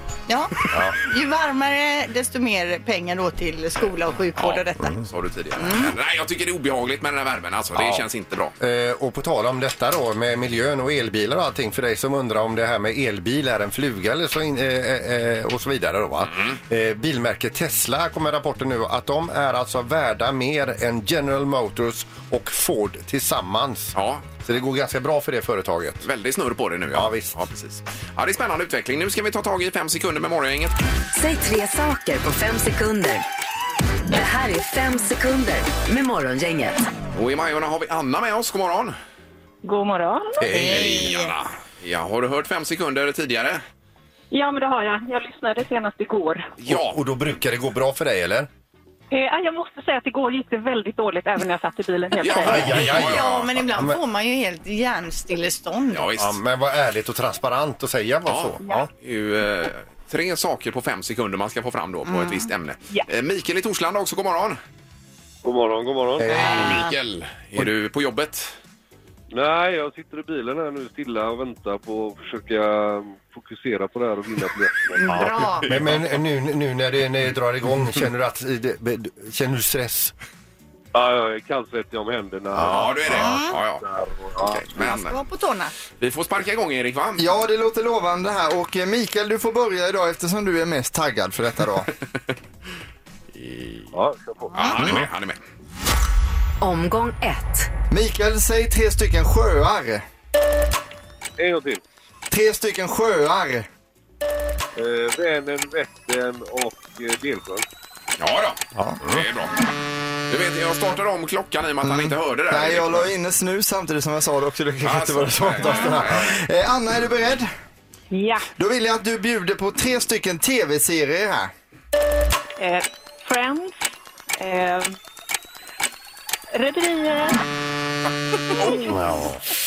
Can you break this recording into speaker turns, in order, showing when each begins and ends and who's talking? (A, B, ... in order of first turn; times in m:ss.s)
0:00.3-0:05.0 A
0:00.7-0:01.0 B
0:04.4-0:08.5 C
0:05.6-0:05.9 A
0:07.7-0:08.1 B
0:08.6-0:26.1 B
0:23.9-0:24.4 C
0:26.0-0:30.7 C
0:26.9-0:27.4 B
0:31.1-0:33.2 D
0:34.1-0:36.9 D
0:37.1-0:38.9 C
0:39.6-0:40.5 E
0:40.4-0:43.6 C
0:40.5-0:41.3 A
0:40.5-0:40.9 B
0:44.3-0:46.5 E
0:46.6-0:47.0 C
0:46.7-0:48.5 B
0:49.1-0:52.6 E
0:52.2-0:53.5 C
0:52.4-0:54.0 B
0:52.6-0:56.1 A
0:55.9-0:56.4 C
0:56.2-0:58.9 B
0:58.2-1:04.6 C
1:02.1-1:02.4 A
1:05.4-1:06.3 F
1:06.2-1:06.9 B
1:06.3-1:08.5 C
1:09.3-1:15.2 F
1:15.0-1:15.7 A
1:15.1-1:20.1 B
1:20.9-1:24.7 F
1:22.5-1:23.1 B
1:22.6-1:23.8 C
1:23.1-1:23.6 A
1:24.4-1:25.1 C
1:24.8-1:25.7 A
1:26.0-1:27.2 C
1:27.2-1:31.9 G
1:33.3-1:33.9 C
1:33.9-1:34.5 F
1:34.5-1:35.4 C
1:34.8-1:35.1 B
1:36.6-1:37.7 D
1:37.9-1:40.0 G
1:41.4-1:41.8 F
1:42.3-1:43.7 G
1:44.8-1:47.6 F
1:48.2-1:49.5 C
1:49.0-1:49.2 B
1:50.3-1:53.1 C
1:51.8-1:57.5 G
1:54.8-1:56.4 C
1:55.6-1:55.9 A
1:58.1-1:58.4 E
1:58.6-2:01.5 G
2:02.6-2:03.9 E
2:04.4-2:05.0 E
2:06.5-2:07.4 E
2:08.6-2:09.0 E
2:08.6-2:08.9 C
2:08.8-2:09.4 B